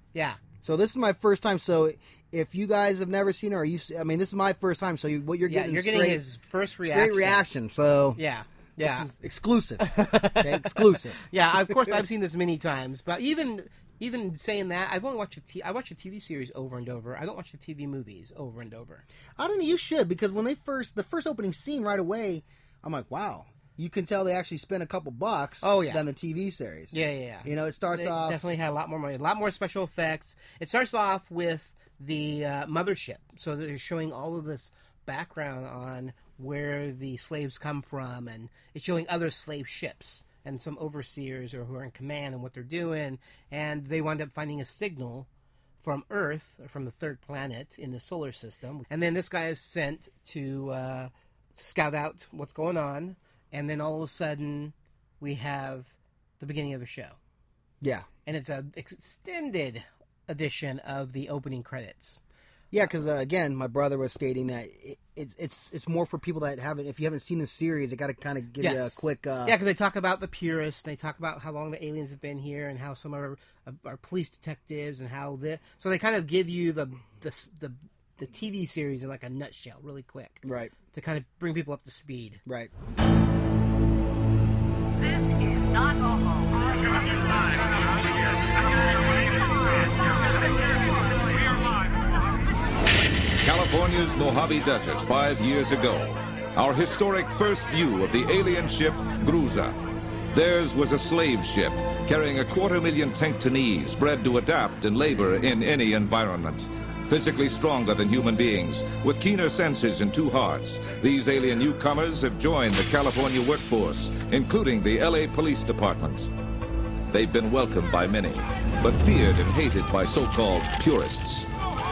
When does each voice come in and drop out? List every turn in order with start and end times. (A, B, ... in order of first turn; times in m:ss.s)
0:00.1-0:00.4 A
0:00.6-0:06.2 B
0:05.4-0:07.4 A
0:06.8-0:08.2 B
0:08.2-0:09.1 A
0:08.8-0:12.0 B
0:09.8-0:19.0 A
0:19.4-0:28.5 B
0:25.6-0:26.0 A
0:26.9-0:45.3 A
0:45.8-0:57.2 A
0:57.8-0:58.1 B
0:58.2-1:02.2 A
1:02.7-1:09.6 B
1:08.6-1:22.4 A
1:20.4-1:20.7 B
1:22.4-1:22.7 B
1:33.4-1:39.8 C
1:40.3-1:56.3 C
1:57.1-2:01.5 C